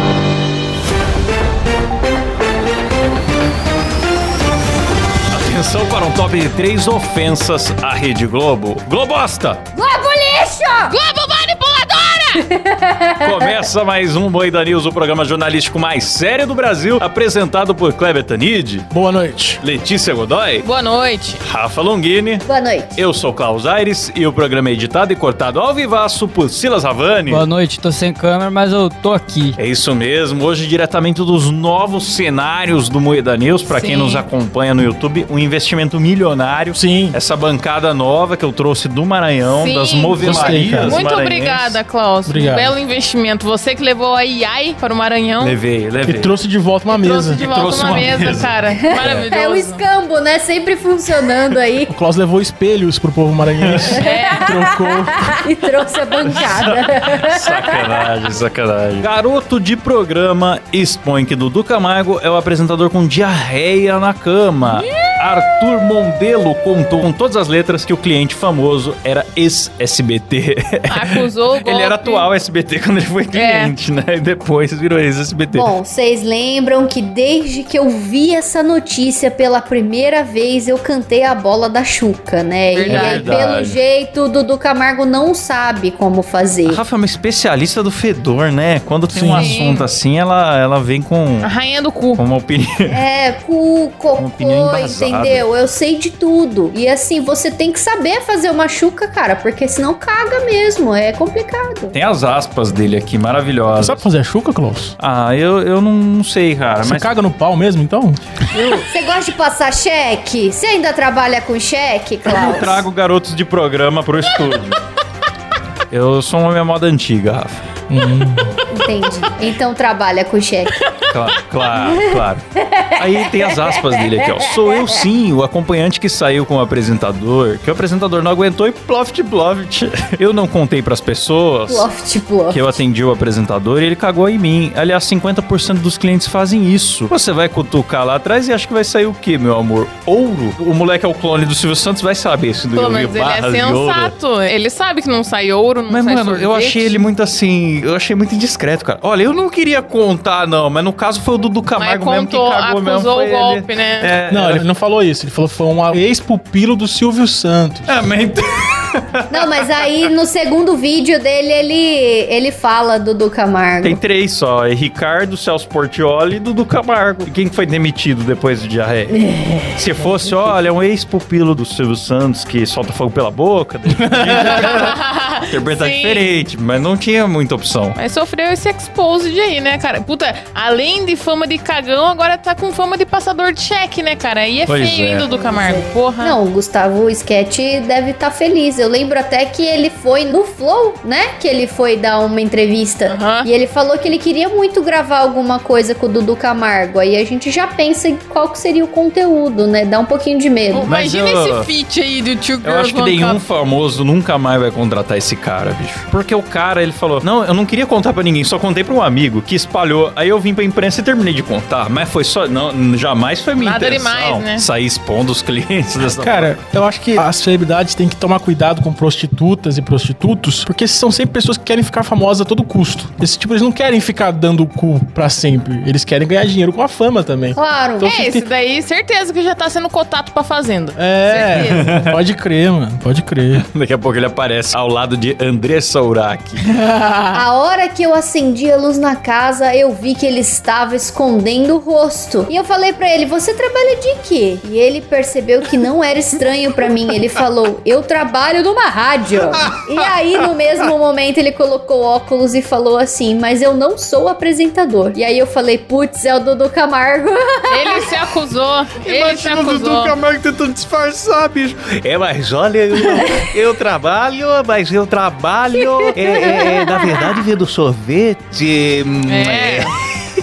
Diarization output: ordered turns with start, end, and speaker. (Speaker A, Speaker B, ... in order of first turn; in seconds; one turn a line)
Speaker A: 5.3-9.6
Speaker B: 9.7-10.9
Speaker C: 10.9-12.4
Speaker B: 12.3-13.6
Speaker A: 13.2-18.9
Speaker D: 18.9-19.6
Speaker A: 19.6-20.7
Speaker C: 20.6-21.4
Speaker A: 21.4-27.5
Speaker B: 22.4-23.0
Speaker E: 27.3-29.6
Speaker A: 29.6-41.8
Speaker C: 33.7-34.2
Speaker D: 36.8-37.2
Speaker C: 39.5-45.6
Speaker D: 40.2-41.0
Speaker D: 42.2-42.8
Speaker A: 45.4-46.3
Speaker D: 46.0-47.4
Speaker C: 46.9-49.8
Speaker A: 47.4-49.3
Speaker B: 48.8-51.9
Speaker D: 51.9-55.4
Speaker A: 53.6-54.0
Speaker C: 54.0-54.5
Speaker B: 54.0-57.6
Speaker A: 56.2-75.7
Speaker C: 64.7-65.2
Speaker C: 70.9-72.3
Speaker C: 73.3-73.7
Speaker B: 75.5-86.8
Speaker C: 82.7-83.4
Speaker A: 82.9-83.8
Speaker A: 86.7-91.5
Speaker D: 89.1-89.5
Speaker C: 89.3-89.9
Speaker C: 91.4-92.2
Speaker A: 92.2-92.9
Speaker B: 92.9-101.9
Speaker A: 94.2-95.5
Speaker A: 101.9-104.1
Speaker D: 103.8-104.9
Speaker A: 105.0-107.2
Speaker D: 106.8-108.2
Speaker B: 108.9-112.8
Speaker A: 112.2-114.8
Speaker A: 115.9-117.6
Speaker D: 117.9-118.5
Speaker B: 118.7-120.7
Speaker A: 121.1-122.4
Speaker B: 121.8-125.1
Speaker A: 123.0-131.9
Speaker B: 131.7-132.8
Speaker A: 132.5-144.2
Speaker C: 142.7-147.0
Speaker A: 145.9-154.7
Speaker C: 151.8-154.1
Speaker D: 154.3-158.1
Speaker A: 157.9-160.1
Speaker B: 159.3-164.0
Speaker A: 163.8-169.2
Speaker B: 169.1-170.5
Speaker A: 169.7-175.0
Speaker D: 173.9-174.8
Speaker C: 174.3-176.3
Speaker A: 175.5-178.0
Speaker C: 177.9-186.4
Speaker A: 184.7-185.3
Speaker B: 185.2-200.9
Speaker C: 193.1-193.5
Speaker C: 200.7-203.4
Speaker A: 200.9-201.7
Speaker A: 202.6-216.6
Speaker C: 213.6-214.7
Speaker D: 216.0-228.4
Speaker B: 227.6-228.2
Speaker C: 228.0-231.9
Speaker D: 231.0-233.6
Speaker A: 231.6-232.2
Speaker A: 233.5-236.6
Speaker C: 236.8-237.4
Speaker B: 237.3-258.1
Speaker C: 257.7-260.1
Speaker A: 259.0-269.9
Speaker B: 266.1-267.3
Speaker C: 269.3-269.9